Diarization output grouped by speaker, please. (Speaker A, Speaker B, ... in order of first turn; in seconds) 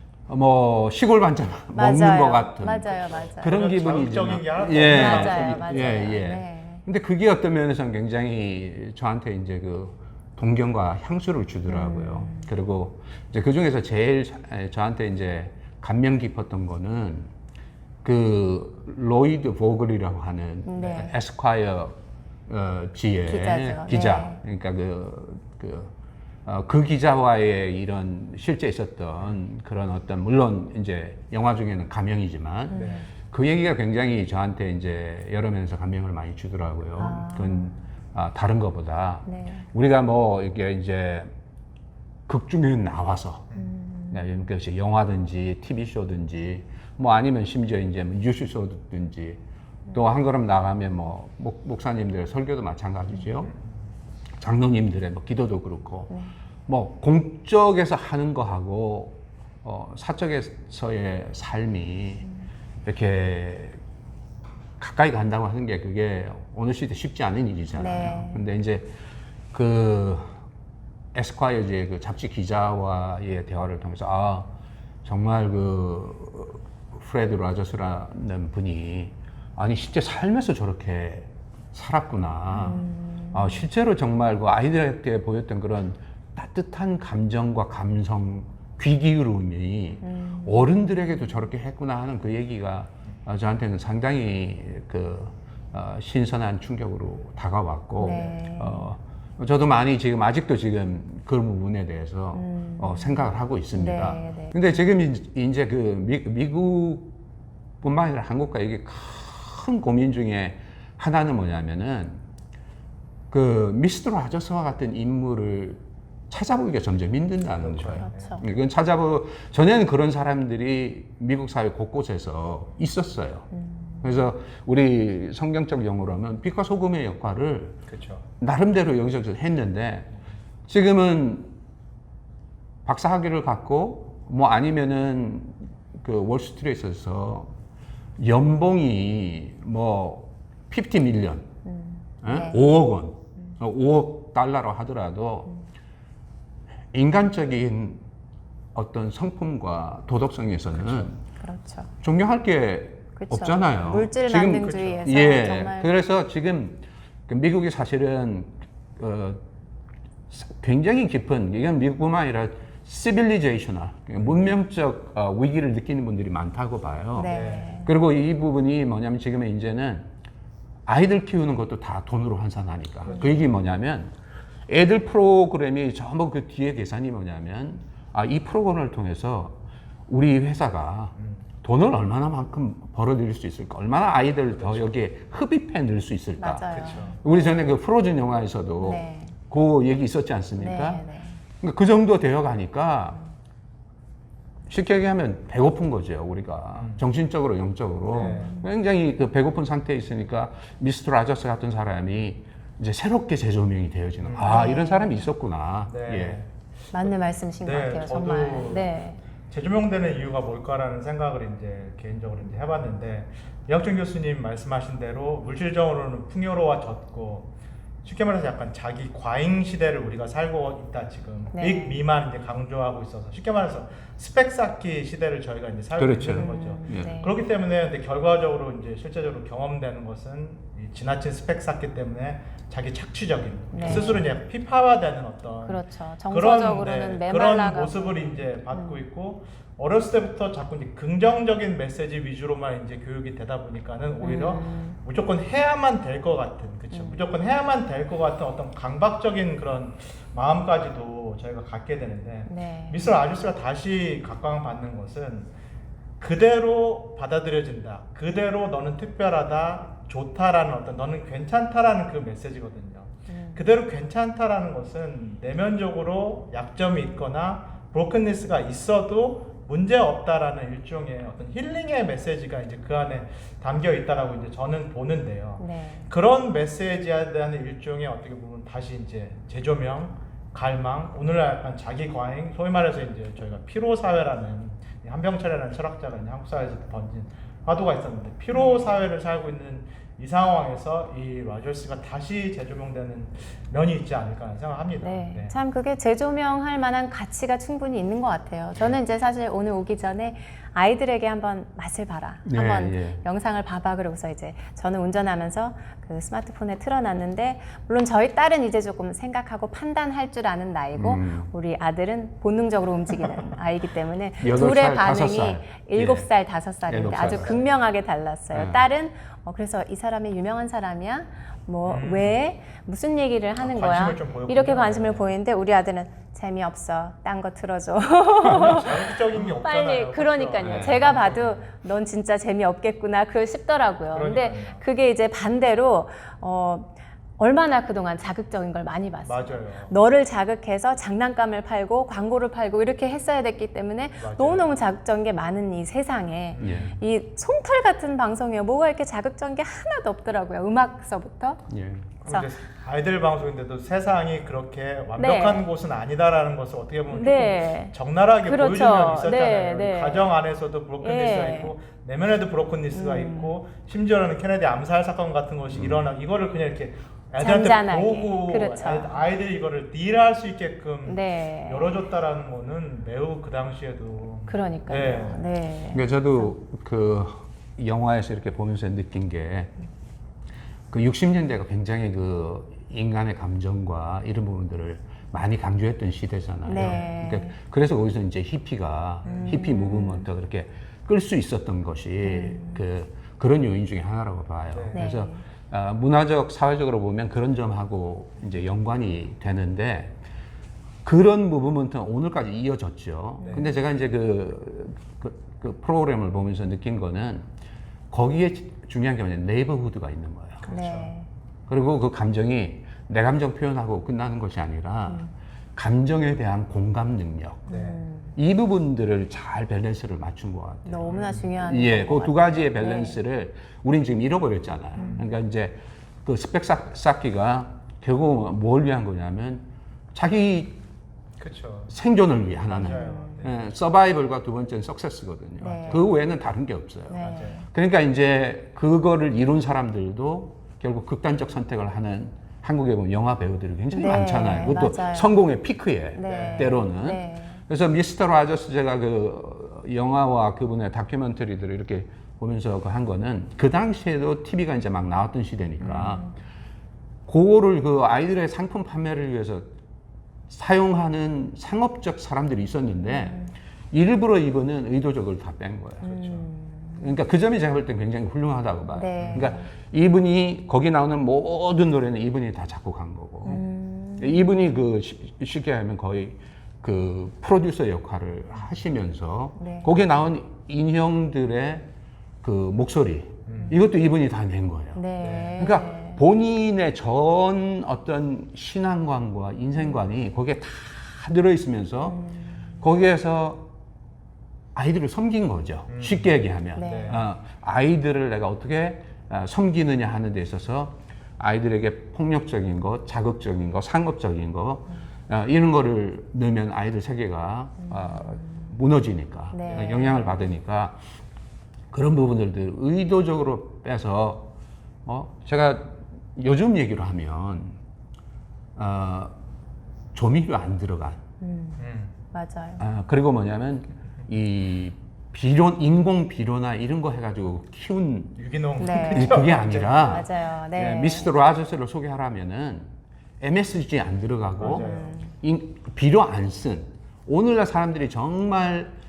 Speaker A: 0.3-17.3, 18.0-22.0, 22.5-25.9, 26.5-41.3, 42.3-43.5, 44.1-49.4, 49.9-53.5, 54.4-56.1, 56.7-62.3, 62.8-63.8, 64.8-68.9, 69.5-70.4, 71.1-74.5, 75.0-107.1, 107.8-112.2, 113.3-123.5, 124.0-127.8, 128.4-130.1, 130.7-131.5, 132.8-137.5, 138.2-141.5, 142.2-145.5, 146.9-148.1, 148.7-151.2, 152.0-159.4, 160.3-170.1, 170.9-174.1, 174.7-191.0, 191.6-193.2, 194.7-206.4, 226.0-227.2, 233.8-234.2, 302.4-303.2, 310.9-311.5, 314.4-316.3, 316.9-317.6, 318.5-318.9, 330.6-331.1, 346.6-347.0, 351.7-352.1, 365.7-366.1, 375.9-379.8, 380.9-400.2, 401.0-407.4, 408.1-410.7, 411.7-417.7, 418.4-430.8, 431.9-456.3, 457.3-459.7, 460.5-466.1, 467.0-473.6, 474.2-481.9, 482.4-485.1, 485.6-493.7, 494.7-511.0, 511.9-514.5, 515.0-517.8, 518.8-519.4, 520.1-521.2, 522.8-528.4, 529.1-534.9, 535.4-538.9
Speaker B: 1.7-3.5, 4.9-6.8, 11.7-12.5, 20.7-21.1, 23.2-24.4, 32.7-33.1, 37.0-37.7, 39.3-39.7, 43.5-44.5, 67.7-68.4, 82.5-83.7, 90.0-91.3, 98.0-98.9, 102.3-104.6, 117.9-118.4, 123.5-124.3, 141.7-142.8, 151.4-151.9, 153.2-155.9, 167.2-167.9, 173.1-173.4, 186.4-187.7, 188.8-189.4, 190.6-191.4, 198.2-198.7, 204.4-205.3, 206.9-209.2, 221.5-222.0, 226.3-227.4, 233.7-234.2, 235.6-239.0, 244.2-245.0, 246.9-247.3, 252.5-253.1, 263.3-263.7, 275.6-276.1, 288.5-289.1, 295.0-351.7, 355.2-355.7, 357.1-360.3, 361.0-361.7, 362.9-363.6, 367.4-369.2, 371.1-372.0, 374.5-376.5, 386.6-387.6, 389.3-390.3, 392.2-392.8, 394.9-395.4, 403.4-403.8, 410.7-411.3, 417.7-418.3, 420.9-423.2, 425.0-425.3, 432.8-433.4, 435.6-436.0, 437.1-437.6, 443.9-445.3, 446.1-447.6, 455.8-456.4, 463.0-463.5, 466.1-467.1, 468.9-469.7, 473.4-474.7, 479.6-479.9, 484.9-486.2, 492.1-492.6, 496.8-497.2, 507.8-508.7, 509.5-510.3, 521.4-522.8, 528.8-531.3, 534.6-535.3
Speaker C: 2.8-6.0, 32.7-33.0, 117.6-118.4, 127.9-128.2, 150.8-151.1, 154.6-155.1, 167.2-167.7, 173.1-173.4, 181.2-181.5, 184.5-184.9, 186.7-187.2, 196.8-197.0, 198.1-198.5, 204.2-204.7, 205.9-206.5, 207.0-209.0, 209.5-217.5, 218.0-255.5, 256.2-295.6, 321.9-322.4, 323.6-325.3, 328.4-331.7, 334.1-334.8, 339.2-339.9, 344.2-344.7, 346.5-346.9, 352.2-375.5, 389.2-389.6, 394.7-395.0, 403.4-403.7, 410.6-411.1, 417.7-418.0, 421.0-421.6, 425.0-425.3, 431.4-431.9, 432.7-433.6, 435.8-436.1, 437.2-437.6, 446.2-446.8, 466.0-466.4, 469.2-469.5, 483.5-483.8, 485.2-485.6, 495.9-497.2, 521.8-522.1, 528.4-530.3, 534.6-535.2